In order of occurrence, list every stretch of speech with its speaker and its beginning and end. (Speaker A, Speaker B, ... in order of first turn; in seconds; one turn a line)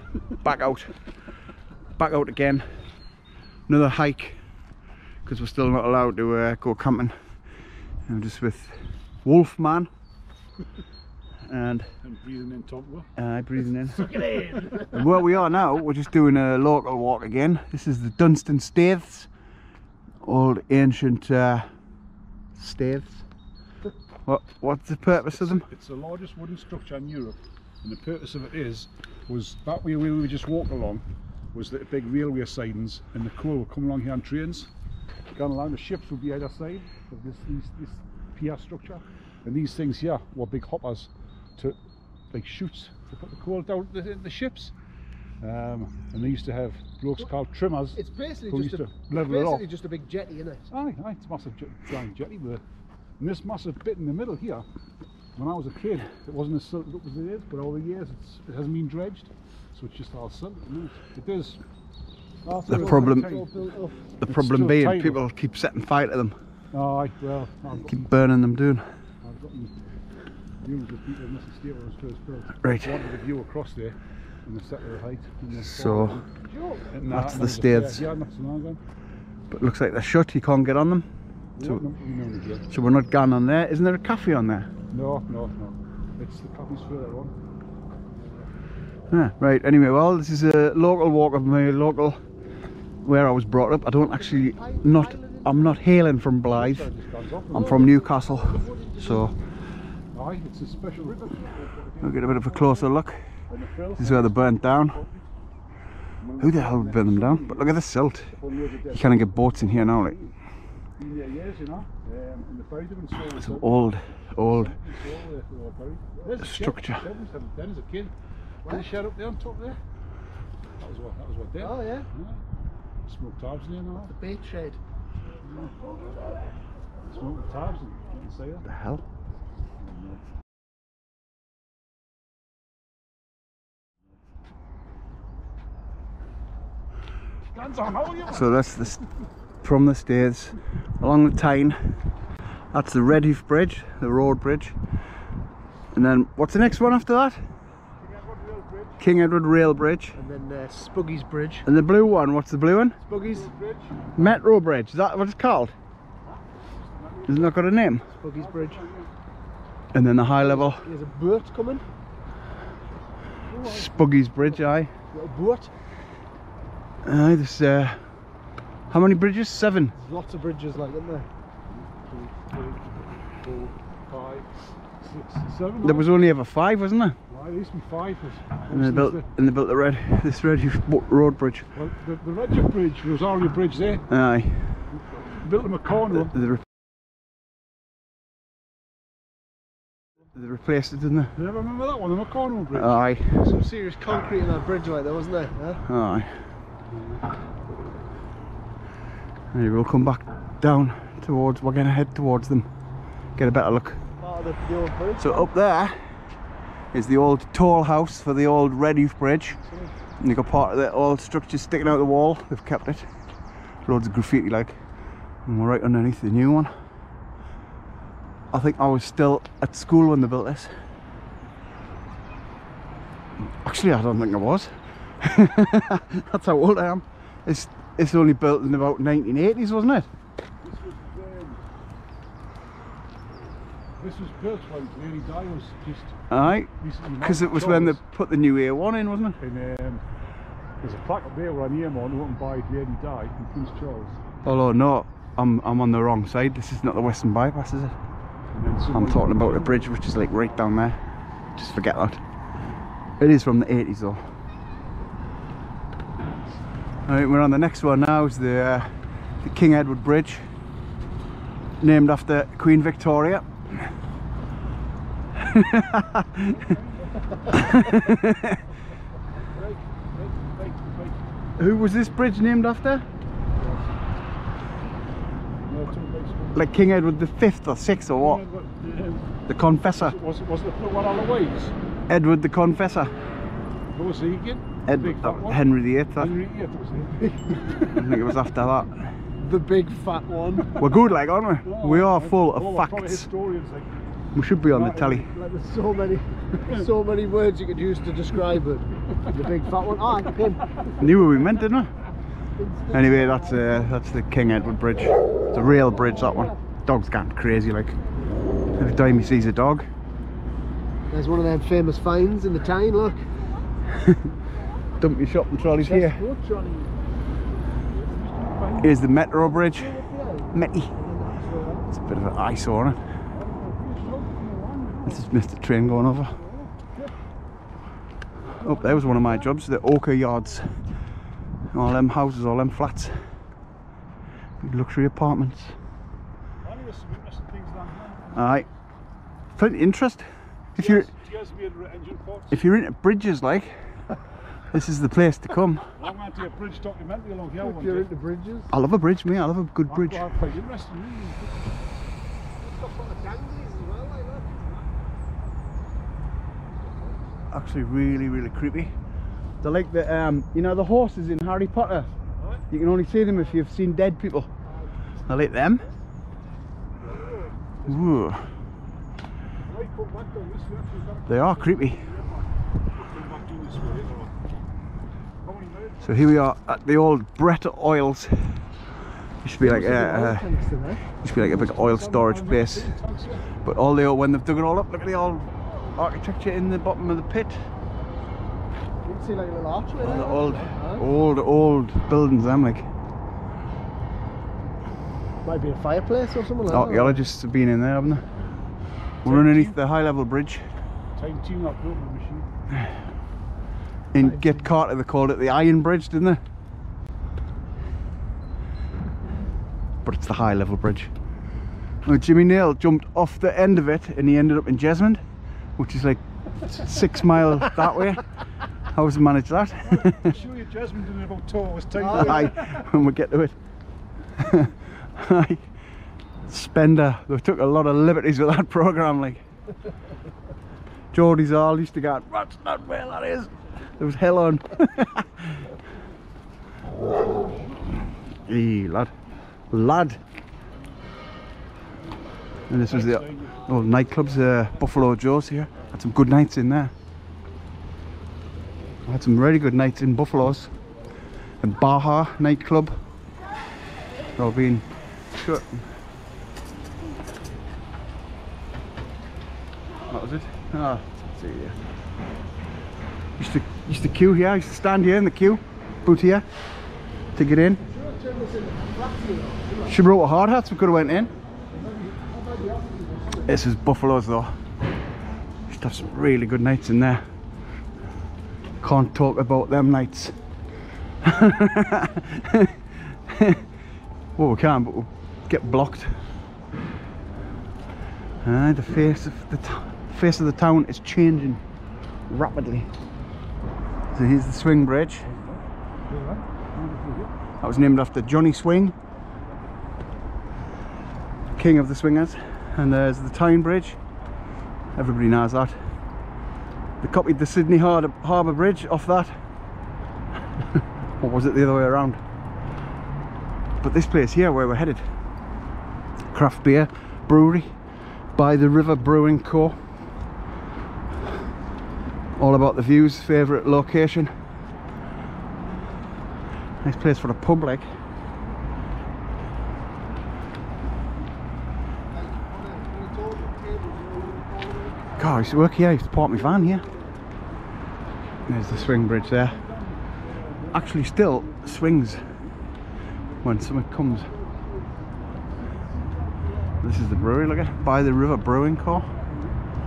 Speaker A: 0.3-0.9
Speaker A: 2.0-2.8
Speaker A: 3.7-4.4
Speaker A: 5.2-7.2
Speaker A: 8.1-9.9
Speaker A: 11.4-11.9
Speaker B: 12.0-13.1
Speaker A: 13.2-14.0
Speaker C: 14.0-14.9
Speaker B: 14.1-14.6
Speaker A: 14.9-19.3
Speaker A: 20.2-21.7
Speaker A: 22.6-23.2
Speaker A: 24.2-25.6
Speaker B: 25.3-34.7
Speaker B: 35.3-41.8
Speaker B: 42.3-44.7
Speaker B: 45.4-48.0
Speaker C: 47.9-50.7
Speaker B: 48.5-49.7
Speaker B: 50.7-52.6
Speaker B: 53.2-54.6
Speaker B: 55.4-61.6
Speaker B: 62.4-63.5
Speaker C: 62.6-64.1
Speaker A: 62.7-63.3
Speaker A: 64.2-66.4
Speaker B: 64.2-65.2
Speaker B: 66.7-68.0
Speaker A: 67.8-68.9
Speaker B: 69.2-69.7
Speaker B: 70.6-78.8
Speaker A: 72.6-73.0
Speaker A: 75.5-76.2
Speaker A: 77.1-78.1
Speaker A: 79.5-81.8
Speaker B: 81.6-82.6
Speaker A: 82.7-84.7
Speaker B: 84.9-87.3
Speaker A: 89.1-92.2
Speaker A: 93.0-96.9
Speaker C: 94.2-95.8
Speaker B: 96.5-97.9
Speaker A: 97.5-99.3
Speaker C: 97.5-99.3
Speaker B: 100.1-102.9
Speaker A: 102.0-103.2
Speaker B: 103.5-105.2
Speaker A: 104.0-105.0
Speaker B: 106.2-107.8
Speaker A: 106.4-108.3
Speaker B: 108.3-110.3
Speaker A: 108.9-110.2
Speaker B: 111.0-113.8
Speaker A: 113.4-114.7
Speaker B: 114.4-118.1
Speaker A: 116.4-117.0
Speaker B: 118.6-119.8
Speaker B: 120.8-122.4
Speaker C: 121.6-122.1
Speaker B: 123.0-124.1
Speaker C: 124.0-124.8
Speaker B: 125.4-125.7
Speaker B: 127.1-128.7
Speaker A: 128.6-129.0
Speaker B: 129.8-130.2
Speaker B: 137.5-138.5
Speaker A: 138.2-139.1
Speaker A: 139.6-142.0
Speaker A: 142.7-144.8
Speaker A: 145.9-147.5
Speaker B: 148.0-149.0
Speaker A: 149.0-150.2
Speaker C: 150.1-151.7
Speaker A: 151.6-153.0
Speaker C: 153.0-153.5
Speaker B: 153.2-154.4
Speaker A: 154.1-155.7
Speaker B: 156.2-157.5
Speaker A: 157.3-158.1
Speaker C: 158.1-158.8
Speaker B: 158.3-159.1
Speaker A: 159.9-160.8
Speaker C: 160.4-161.8
Speaker A: 163.6-164.9
Speaker C: 165.1-165.7
Speaker A: 167.0-168.3
Speaker A: 168.9-169.9
Speaker C: 169.9-171.3
Speaker B: 171.7-176.1
Speaker A: 175.8-177.2
Speaker B: 177.3-179.3
Speaker A: 178.7-181.7
Speaker B: 181.7-184.1
Speaker A: 184.1-184.9
Speaker B: 185.2-186.3
Speaker A: 186.3-186.6
Speaker A: 190.3-191.3
Speaker B: 191.3-193.2
Speaker A: 192.7-193.4
Speaker C: 193.3-195.8
Speaker A: 195.8-196.4
Speaker A: 199.5-202.7
Speaker A: 203.3-204.0
Speaker C: 204.2-205.5
Speaker A: 205.2-206.0
Speaker A: 206.9-209.6
Speaker A: 210.2-213.1
Speaker A: 213.8-216.7
Speaker A: 218.5-220.7
Speaker A: 223.6-230.1
Speaker B: 230.6-231.6
Speaker B: 234.0-236.2
Speaker A: 236.3-239.4
Speaker B: 236.8-238.0
Speaker B: 239.4-240.0
Speaker B: 240.8-244.2
Speaker A: 244.4-247.9
Speaker B: 248.5-249.9
Speaker A: 248.9-251.0
Speaker A: 251.5-252.2
Speaker A: 253.2-254.2
Speaker A: 257.1-260.4
Speaker A: 261.8-263.4
Speaker A: 265.4-266.3
Speaker B: 266.4-267.7
Speaker A: 267.5-268.6
Speaker B: 269.5-271.2
Speaker A: 271.6-273.0
Speaker B: 273.6-273.9
Speaker B: 275.6-276.7
Speaker A: 276.5-278.4
Speaker B: 278.1-281.7
Speaker A: 279.5-280.2
Speaker A: 282.1-283.1
Speaker B: 283.9-288.0
Speaker A: 284.9-286.3
Speaker A: 287.9-289.1
Speaker C: 289.4-290.8
Speaker A: 290.8-293.3
Speaker B: 291.6-294.0
Speaker A: 294.3-295.3
Speaker B: 294.6-295.3
Speaker C: 295.3-300.9
Speaker A: 301.0-301.9
Speaker C: 302.6-303.9
Speaker A: 302.9-308.0
Speaker C: 306.0-306.6
Speaker A: 308.8-309.9
Speaker C: 311.1-313.3
Speaker A: 315.0-316.2
Speaker C: 315.8-316.9
Speaker B: 318.0-319.0
Speaker A: 318.8-320.0
Speaker C: 319.4-321.9
Speaker A: 320.5-320.9
Speaker A: 321.9-323.1
Speaker B: 323.3-325.3
Speaker A: 325.1-326.4
Speaker B: 326.3-327.1
Speaker A: 328.6-330.9
Speaker A: 331.7-333.3
Speaker A: 334.6-335.8
Speaker B: 336.6-338.7
Speaker A: 338.3-338.6
Speaker A: 339.6-341.1
Speaker B: 340.8-342.6
Speaker A: 342.5-344.0
Speaker A: 344.7-345.9
Speaker B: 346.0-348.1
Speaker C: 347.6-348.7
Speaker A: 348.7-350.3
Speaker B: 349.9-351.7
Speaker C: 352.6-354.6
Speaker A: 357.5-358.9
Speaker A: 359.6-362.1
Speaker A: 362.7-364.5
Speaker C: 364.6-364.9
Speaker A: 365.3-365.9
Speaker B: 367.0-368.2
Speaker A: 367.9-368.5
Speaker B: 369.6-374.3
Speaker A: 371.3-372.1
Speaker B: 375.4-376.1
Speaker A: 376.0-378.9
Speaker A: 379.4-383.0
Speaker C: 379.6-381.0
Speaker B: 381.3-383.5
Speaker A: 383.6-387.7
Speaker C: 389.0-391.1
Speaker A: 390.0-392.9
Speaker C: 395.4-397.2
Speaker A: 396.7-398.3
Speaker A: 399.2-400.6
Speaker B: 399.2-399.8
Speaker B: 401.1-402.5
Speaker A: 404.1-406.4
Speaker C: 404.2-404.6
Speaker A: 410.0-411.1
Speaker A: 412.0-415.2
Speaker A: 415.8-418.3
Speaker A: 418.8-420.3
Speaker B: 420.0-422.9
Speaker A: 422.1-423.6
Speaker A: 424.4-425.7
Speaker A: 426.4-429.4
Speaker A: 431.1-435.7
Speaker A: 438.4-439.1
Speaker A: 439.7-440.2
Speaker A: 442.7-446.9
Speaker B: 442.7-444.5
Speaker A: 449.0-450.7
Speaker A: 451.6-453.0
Speaker A: 454.4-455.9
Speaker A: 460.1-461.8
Speaker A: 463.4-466.4
Speaker A: 467.3-467.8
Speaker C: 467.8-470.0
Speaker A: 469.9-471.3
Speaker B: 471.7-473.4
Speaker A: 473.4-474.5
Speaker A: 475.7-477.2
Speaker A: 478.8-480.4
Speaker A: 481.2-483.6
Speaker A: 484.4-486.2
Speaker A: 488.4-491.6
Speaker A: 492.3-492.9
Speaker A: 494.1-495.3
Speaker B: 495.2-497.3
Speaker A: 497.6-498.9
Speaker A: 501.5-504.0
Speaker A: 504.9-505.9
Speaker A: 507.0-509.3
Speaker A: 511.2-512.2
Speaker A: 513.8-515.1
Speaker A: 516.3-517.8
Speaker A: 518.3-519.8
Speaker A: 522.4-524.3
Speaker A: 526.8-527.9
Speaker C: 532.1-535.2
Speaker A: 535.2-536.9
Speaker C: 536.3-537.1
Speaker A: 538.5-539.6
Speaker B: 538.5-542.6
Speaker A: 540.7-542.4
Speaker A: 543.4-544.3
Speaker C: 544.0-545.1
Speaker A: 546.8-549.1
Speaker B: 549.2-549.5